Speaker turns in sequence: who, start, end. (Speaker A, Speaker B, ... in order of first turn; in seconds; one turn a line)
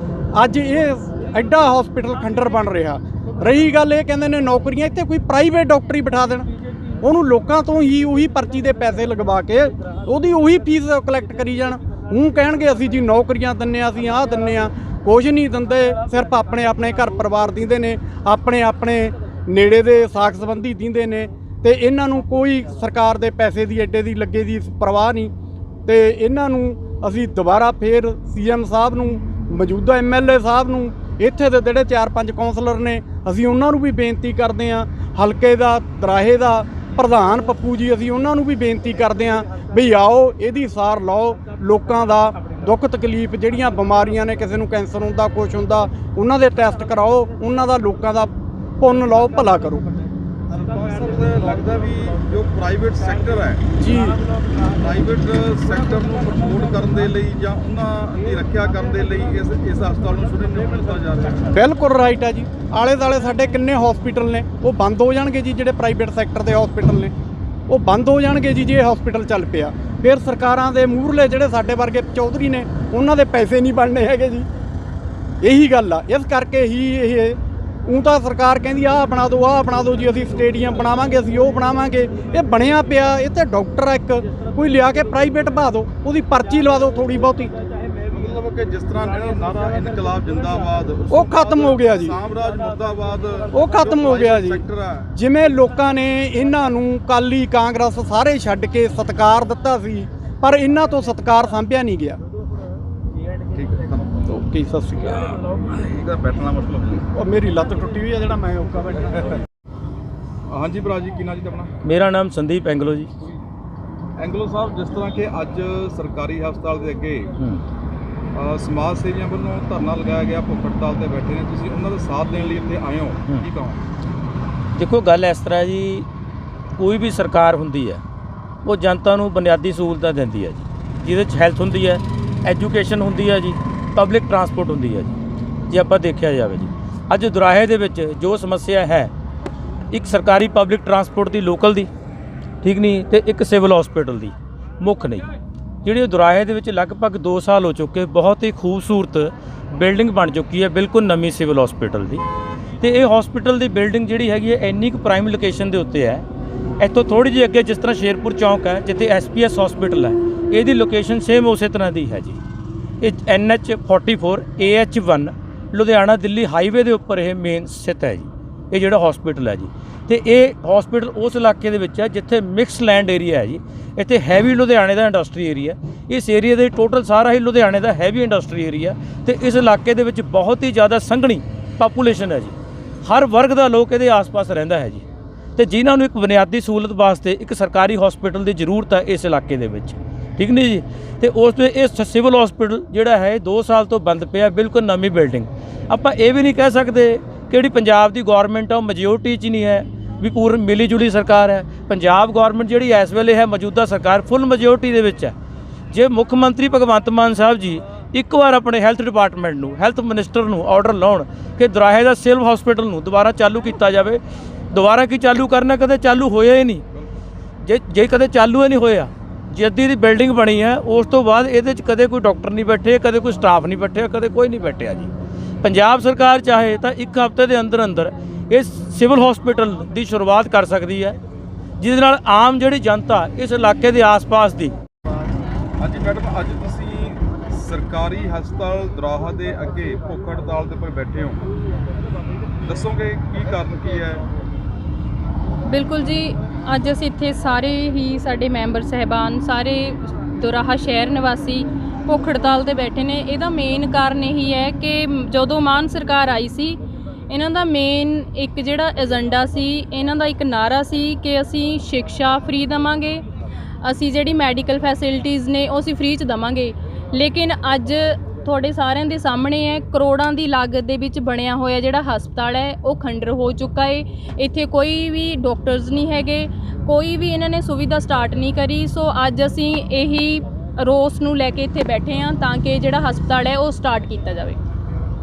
Speaker A: 0.3-25.3
Speaker A: 25.9-49.9
Speaker B: 50.5-53.6
Speaker A: 53.8-54.2
Speaker B: 54.7-61.6
Speaker A: 61.5-67.1
Speaker A: 67.7-74.5
Speaker A: 75.4-87.5
Speaker B: 88.1-95.1
Speaker A: 91.1-92.2
Speaker A: 93.5-94.6
Speaker A: 95.1-102.2
Speaker B: 103.5-104.2
Speaker A: 104.3-105.4
Speaker B: 105.1-107.1
Speaker A: 107.1-109.4
Speaker B: 110.5-111.7
Speaker C: 111.8-113.1
Speaker B: 114.2-117.3
Speaker B: 118.3-123.8
Speaker C: 124.8-126.1
Speaker C: 126.8-128.0
Speaker C: 128.6-135.2
Speaker C: 135.7-139.1
Speaker C: 139.9-141.9
Speaker C: 142.6-145.3
Speaker C: 145.8-152.2
Speaker C: 152.8-156.2
Speaker C: 156.8-162.4
Speaker C: 163.0-185.0
Speaker C: 185.6-205.3
Speaker C: 205.9-216.8
Speaker C: 217.6-225.1
Speaker C: 225.6-231.2
Speaker C: 231.8-234.8
Speaker B: 235.8-241.5
Speaker B: 242.6-244.2
Speaker D: 245.7-263.2
Speaker D: 263.8-284.6